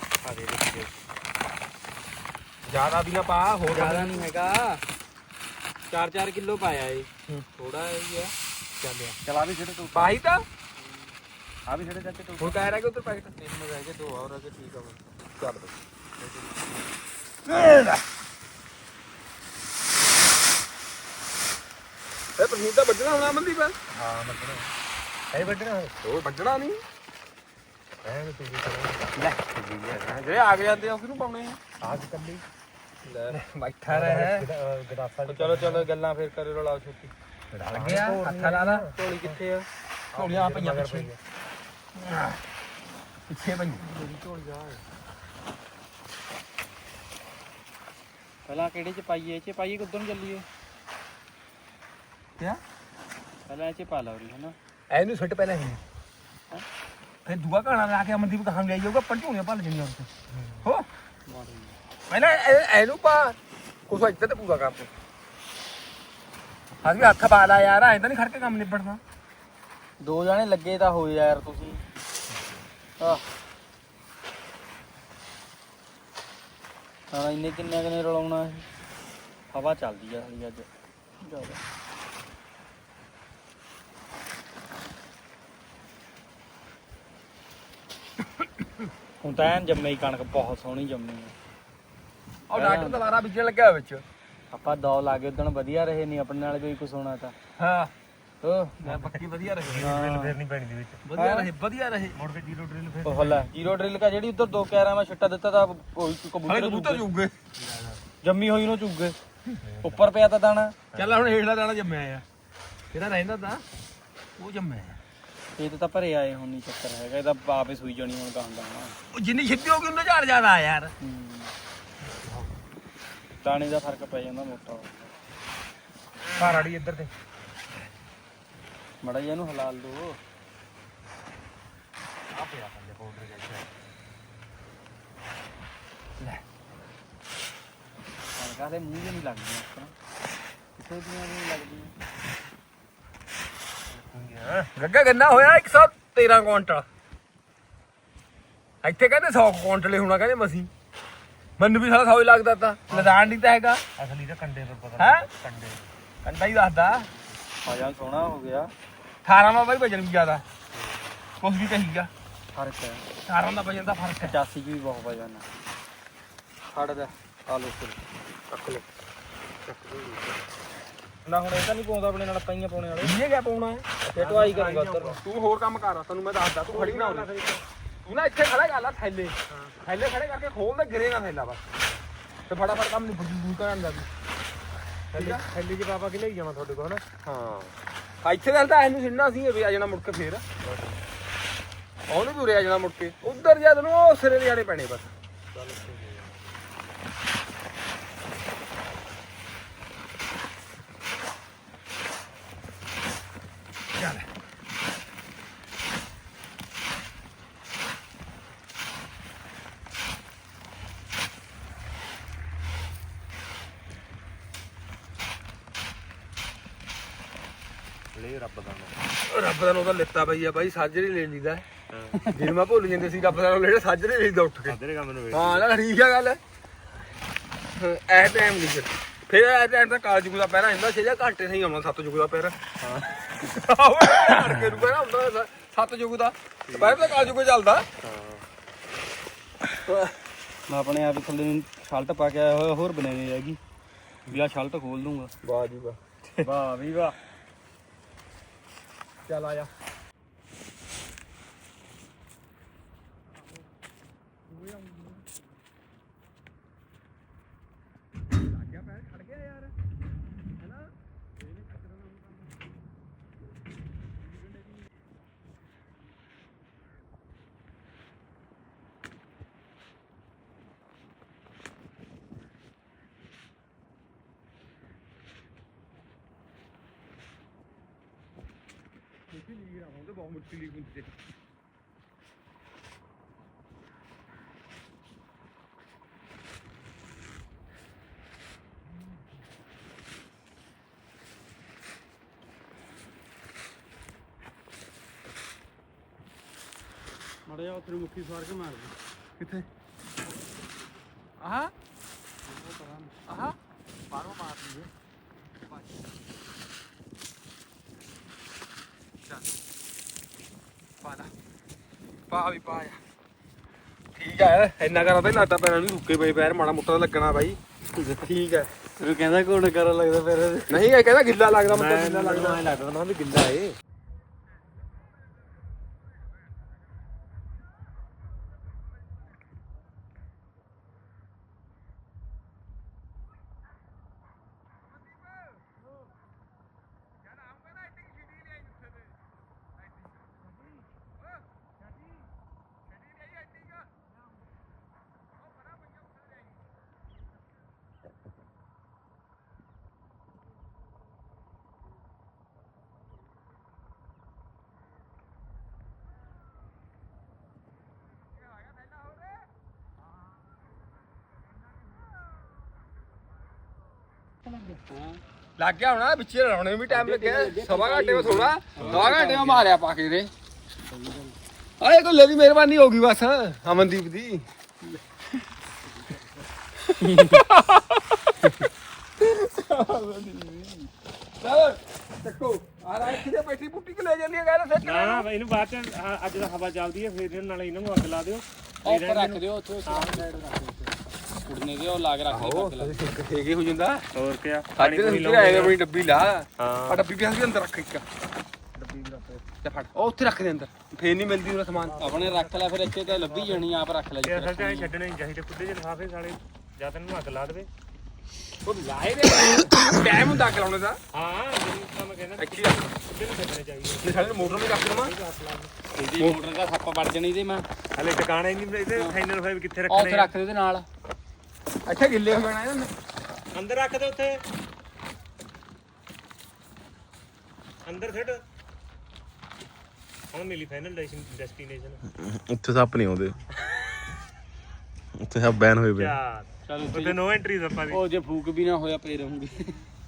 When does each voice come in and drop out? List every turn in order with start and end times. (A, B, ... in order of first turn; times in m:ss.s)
0:00.2-0:01.0 A
0:02.7-0:04.3 B
0:03.7-0:04.8 C
0:05.9-0:08.3 C
0:08.8-0:09.2 B
0:09.2-0:10.2 A
0:09.9-0:10.4 B
0:10.8-0:11.1 C
0:11.7-0:12.8 A
0:12.4-0:13.3 B
0:13.4-0:15.0 C
0:15.4-0:15.7 B
0:16.2-0:16.6 C
0:17.5-0:18.0 B
0:22.4-0:23.8 B
0:23.9-0:24.7 A
0:25.3-0:25.9 A
0:26.0-0:26.8 B
0:28.0-0:29.1 A
0:29.2-0:31.6 B
0:31.8-0:32.4 A
0:33.0-0:33.4 C
0:33.3-0:34.5 B
0:33.9-0:35.9 A
0:35.3-0:37.1 C
0:37.5-0:38.9 B
0:37.7-0:39.4 A
0:39.0-0:39.7 C
0:40.1-0:41.2 A
0:40.1-0:41.1 B
0:42.0-0:42.4 B
0:43.3-0:43.9 B
0:44.0-0:44.8 C
0:48.5-0:50.5 C
0:53.5-0:54.6 C
0:54.9-0:55.8 B
0:57.2-1:00.1 B
1:00.3-1:00.7 A
1:01.3-1:01.8 C
1:02.1-1:03.4 B
1:03.9-1:04.9 B
1:06.8-1:09.0 B
1:10.0-1:11.8 C
1:13.0-1:13.2 C
1:17.1-1:18.7 C
1:19.5-1:20.7 C
1:21.2-1:21.6 C
1:29.2-1:31.3 C
1:32.5-1:34.0 B
1:32.5-1:33.0 C
1:34.5-1:37.4 C
1:37.6-1:37.9 B
1:38.4-1:39.1 C
1:38.8-1:40.0 B
1:39.7-1:41.0 A
1:39.7-1:40.3 C
1:41.1-1:42.2 B
1:41.2-1:41.5 C
1:42.1-1:43.5 A
1:43.0-1:47.1 C
1:46.5-1:47.4 B
1:47.6-1:48.0 A
1:48.2-1:49.2 C
1:49.6-1:50.1 A
1:49.8-1:50.8 C
1:50.9-1:51.3 A
1:50.9-1:52.2 B
1:52.9-1:53.6 B
1:54.4-1:55.0 B
1:55.6-1:59.0 C
1:59.1-2:00.9 B
2:01.0-2:01.5 C
2:03.4-2:05.1 C
2:06.3-2:07.1 A
2:09.0-2:10.2 C
2:12.3-2:13.7 A
2:18.4-2:20.0 C
2:20.8-2:21.9 C
2:23.9-2:24.7 A
2:24.8-2:26.9 B
2:28.8-2:30.7 B
2:31.6-2:33.8 B
2:32.9-2:33.2 A
2:34.0-2:35.9 A
2:35.0-2:35.3 B
2:36.2-2:37.1 B
2:37.6-2:38.7 C
2:39.2-2:40.4 B
2:40.8-2:41.2 A
2:41.4-2:42.1 B
2:42.6-2:43.0 C
2:43.3-2:44.4 B
2:44.2-2:45.5 C
2:46.7-2:48.0 C
2:51.3-2:53.2 C
2:53.0-2:54.1 B
2:54.1-2:55.2 C
2:54.2-2:55.2 A
2:55.1-2:57.3 B
2:56.7-2:57.6 A
2:58.0-3:01.7 B
2:59.5-2:59.8 A
3:02.5-3:04.1 B
3:05.1-3:05.4 B
3:05.1-3:07.7 A
3:08.2-3:10.4 B
3:10.6-3:11.0 A
3:12.1-3:15.1 B
3:15.5-3:16.6 A
3:24.0-3:24.2 B
3:38.2-3:39.0 A
3:39.3-3:41.6 B
3:41.9-3:42.3 A
3:42.3-3:44.8 B
3:44.7-3:45.7 A
3:45.3-3:46.4 B
3:47.8-3:52.6 B
3:52.8-3:53.1 A
3:53.4-3:57.9 B
3:56.7-3:57.4 A
3:58.0-3:58.4 A
4:00.7-4:03.6 C
4:04.3-4:05.3 C
4:05.4-4:06.0 B
4:06.4-4:07.2 A
4:09.3-4:09.7 B
4:14.6-4:15.2 B
4:18.6-4:19.7 B
4:39.3-4:41.1 B
4:57.5-4:58.9 C
5:01.4-5:01.7 B
5:02.5-5:03.2 C
5:03.3-5:03.6 B
5:04.1-5:04.9 B
5:11.0-5:11.3 B
5:12.3-5:13.0 B
5:14.2-5:17.6 B
5:17.9-5:20.8 C
5:20.7-5:22.6 B
5:21.7-5:23.7 A
6:04.5-6:05.2 C
6:05.6-6:10.3 B
6:06.9-6:09.7 C
6:10.8-6:11.4 C
6:11.8-6:14.5 B
6:17.0-6:17.5 C
6:17.1-6:18.3 B
6:19.2-6:20.9 B
6:21.4-6:25.3 B
6:24.8-6:30.3 A
6:28.8-6:33.0 C
6:32.3-6:34.1 B
6:34.2-6:35.8 A
6:34.8-6:38.0 B
6:36.6-6:37.0 A
6:38.8-6:39.4 A
6:39.6-6:42.0 B
6:41.8-6:43.7 A
6:42.0-6:44.9 C
6:44.2-6:47.7 A
6:48.6-6:51.0 B
6:51.1-6:56.4 A
6:52.4-6:52.9 B
6:54.0-6:55.1 B
6:56.0-6:57.7 C
6:58.0-7:00.3 A
6:59.9-7:00.9 C
7:01.9-7:02.9 B
7:03.5-7:04.4 A
7:07.9-7:08.4 A
7:10.3-7:12.0 A
7:12.2-7:13.4 D
7:15.2-7:16.1 D
7:16.0-7:18.0 A
7:16.7-7:17.2 C
7:17.9-7:19.8 C